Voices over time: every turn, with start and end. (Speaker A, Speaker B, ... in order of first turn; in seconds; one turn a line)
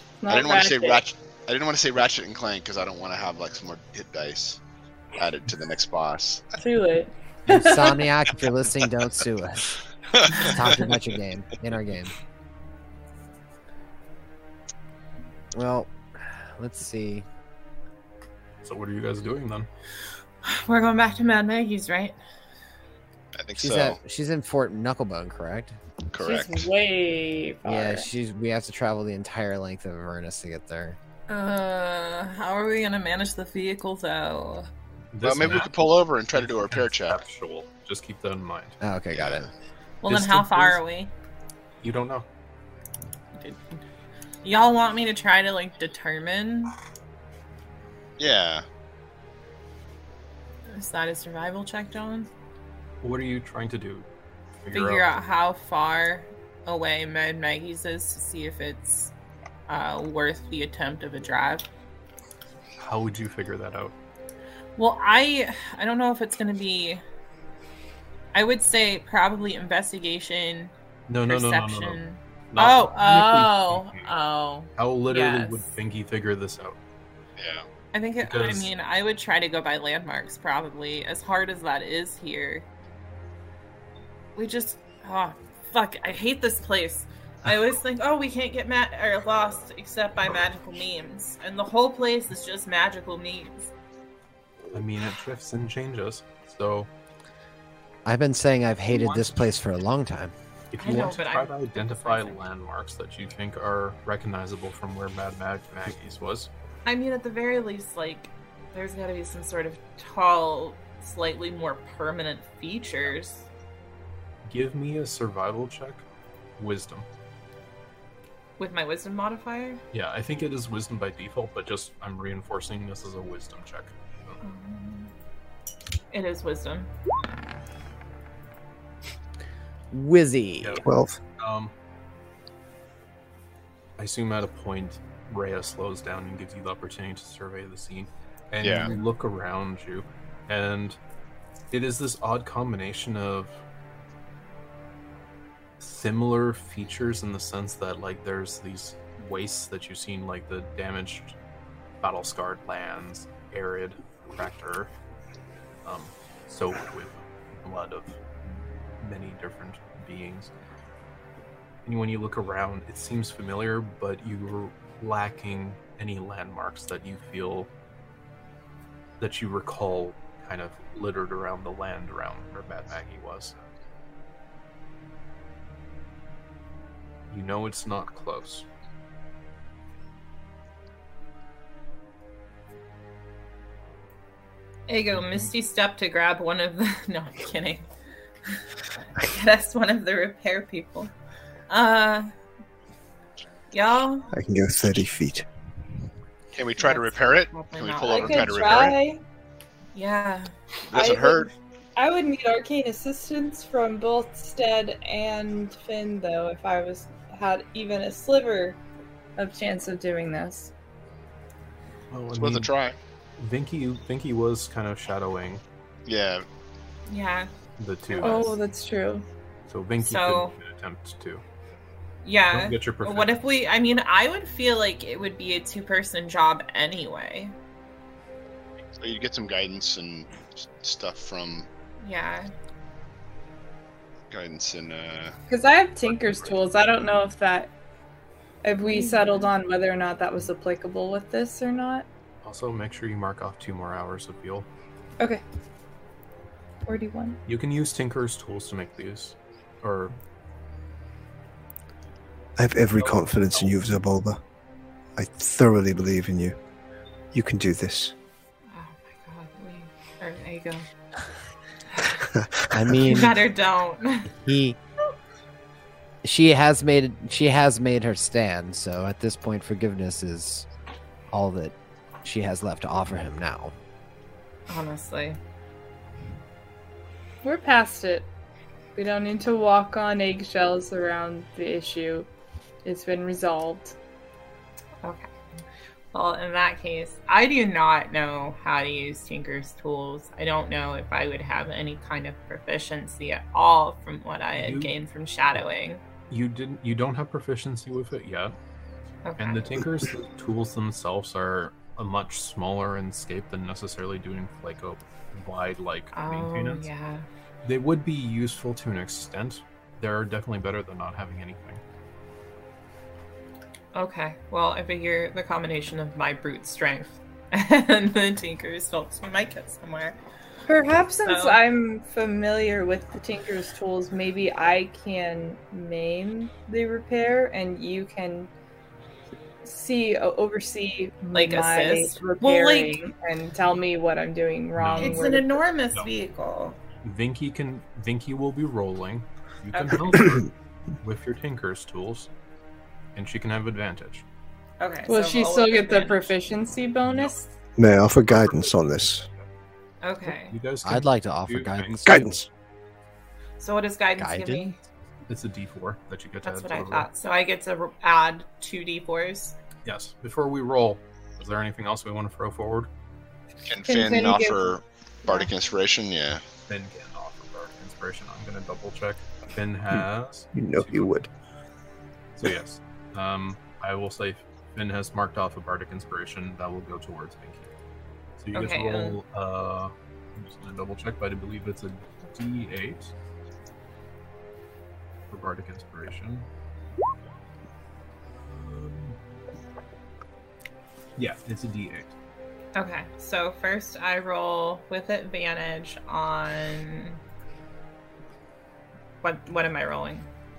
Speaker A: 0.2-1.0
Speaker B: 0.3-4.6
Speaker B: 5.2-6.5
Speaker A: 6.6-8.0
Speaker C: 7.5-9.7
Speaker B: 10.2-10.8
Speaker C: 10.4-12.1
Speaker C: 15.5-17.3
Speaker D: 18.6-19.7
Speaker E: 20.4-22.2
Speaker B: 23.4-24.0
Speaker C: 23.6-25.8
Speaker B: 26.1-26.7
Speaker A: 26.2-28.1
Speaker C: 27.6-31.0
Speaker E: 31.3-34.7
Speaker D: 35.1-38.8
Speaker B: 35.2-37.2
Speaker C: 38.8-39.5
Speaker B: 39.1-39.5
Speaker E: 40.0-41.1
Speaker D: 40.1-40.8
Speaker D: 41.8-42.3
Speaker E: 43.4-43.8
Speaker E: 44.4-46.8
Speaker B: 48.2-48.7
Speaker E: 50.7-52.3
Speaker D: 53.0-54.1
Speaker D: 54.6-55.1
Speaker E: 54.7-59.1
Speaker E: 59.7-61.7
Speaker D: 62.8-64.0
Speaker E: 64.8-67.0
Speaker E: 68.3-70.7
Speaker D: 71.1-72.0
Speaker E: 71.3-75.6
Speaker D: 72.5-74.1
Speaker D: 74.8-76.8
Speaker B: 77.4-77.7
Speaker E: 77.9-82.7
Speaker D: 78.2-78.7
Speaker E: 84.4-93.7
Speaker D: 94.7-96.9
Speaker C: 98.0-100.3
Speaker D: 98.9-99.4
Speaker D: 100.7-106.5
Speaker E: 100.8-102.4
Speaker E: 106.9-113.5
Speaker D: 114.5-116.0
Speaker D: 116.6-117.1
Speaker E: 118.6-119.8
Speaker D: 119.9-124.4
Speaker E: 124.4-125.1
Speaker E: 126.1-126.9
Speaker C: 129.9-130.9
Speaker D: 130.6-130.9
Speaker F: 130.8-131.2
Speaker D: 131.4-131.7
Speaker D: 134.0-141.0
Speaker B: 138.6-138.9
Speaker D: 141.7-143.6
Speaker D: 145.8-151.4
Speaker D: 152.0-154.9
Speaker D: 155.8-160.5
Speaker D: 161.8-167.7
Speaker D: 169.2-173.6
Speaker D: 177.3-178.7
Speaker E: 184.9-187.9
Speaker D: 185.1-185.5
Speaker E: 189.2-191.1
Speaker E: 191.7-192.3
Speaker E: 193.7-194.3
Speaker F: 194.3-195.5
Speaker B: 196.5-199.0
Speaker E: 196.8-198.9
Speaker A: 198.1-199.2
Speaker E: 199.9-200.5
Speaker B: 200.9-201.5
Speaker A: 200.9-208.8
Speaker A: 209.4-210.7
Speaker D: 212.1-212.7
Speaker B: 212.4-213.0
Speaker D: 213.4-215.6
Speaker B: 216.1-216.4
Speaker E: 217.1-217.5
Speaker D: 217.8-218.5
Speaker E: 218.1-218.6
Speaker A: 218.2-219.2
Speaker D: 219.7-221.4
Speaker E: 220.0-220.5
Speaker E: 222.2-227.6
Speaker D: 222.5-223.4
Speaker B: 229.0-231.7
Speaker E: 232.0-232.5
Speaker B: 234.3-235.3
Speaker A: 235.5-237.7
Speaker D: 236.1-236.6
Speaker A: 238.6-242.1
Speaker E: 238.9-239.5
Speaker D: 242.4-244.7
Speaker A: 246.8-247.4
Speaker D: 247.5-250.2
Speaker F: 252.6-254.4
Speaker D: 253.0-253.8
Speaker F: 255.2-256.6
Speaker F: 257.3-258.1
Speaker E: 258.7-260.9
Speaker E: 261.9-262.2
Speaker F: 262.3-263.0
Speaker C: 262.7-263.4
Speaker E: 263.0-264.3
Speaker C: 264.3-264.8
Speaker C: 266.2-270.7
Speaker C: 271.3-273.7
Speaker E: 274.7-275.4
Speaker A: 277.4-278.3
Speaker A: 279.0-282.3
Speaker A: 282.8-283.9
Speaker E: 285.0-285.3
Speaker E: 286.1-296.0
Speaker D: 294.6-294.9
Speaker D: 296.3-298.6
Speaker E: 299.2-299.6
Speaker D: 299.4-306.9
Speaker E: 306.1-307.3
Speaker D: 307.6-311.8
Speaker E: 313.9-320.2
Speaker A: 320.7-328.5
Speaker E: 321.2-321.6
Speaker A: 329.6-335.6
Speaker E: 331.3-333.0
Speaker D: 334.8-335.3
Speaker E: 335.0-336.8
Speaker D: 337.0-342.3
Speaker E: 339.7-340.1
Speaker D: 343.1-344.2
Speaker E: 344.8-346.3
Speaker A: 345.1-347.5
Speaker D: 347.1-347.4
Speaker F: 347.8-349.2
Speaker D: 348.1-349.4
Speaker E: 350.0-350.6
Speaker D: 350.2-352.2
Speaker C: 350.8-352.4
Speaker F: 352.1-352.5
Speaker E: 353.6-354.8
Speaker C: 354.2-354.8
Speaker D: 355.3-357.1
Speaker E: 356.4-359.6
Speaker D: 359.9-362.9
Speaker B: 363.7-366.4
Speaker A: 363.9-364.7
Speaker D: 366.7-371.1
Speaker F: 370.5-371.3
Speaker D: 372.4-377.7
Speaker D: 378.4-383.1
Speaker E: 378.5-379.2
Speaker D: 385.3-386.5
Speaker D: 388.4-389.2
Speaker D: 391.2-392.1
Speaker E: 392.8-397.2
Speaker E: 399.2-400.3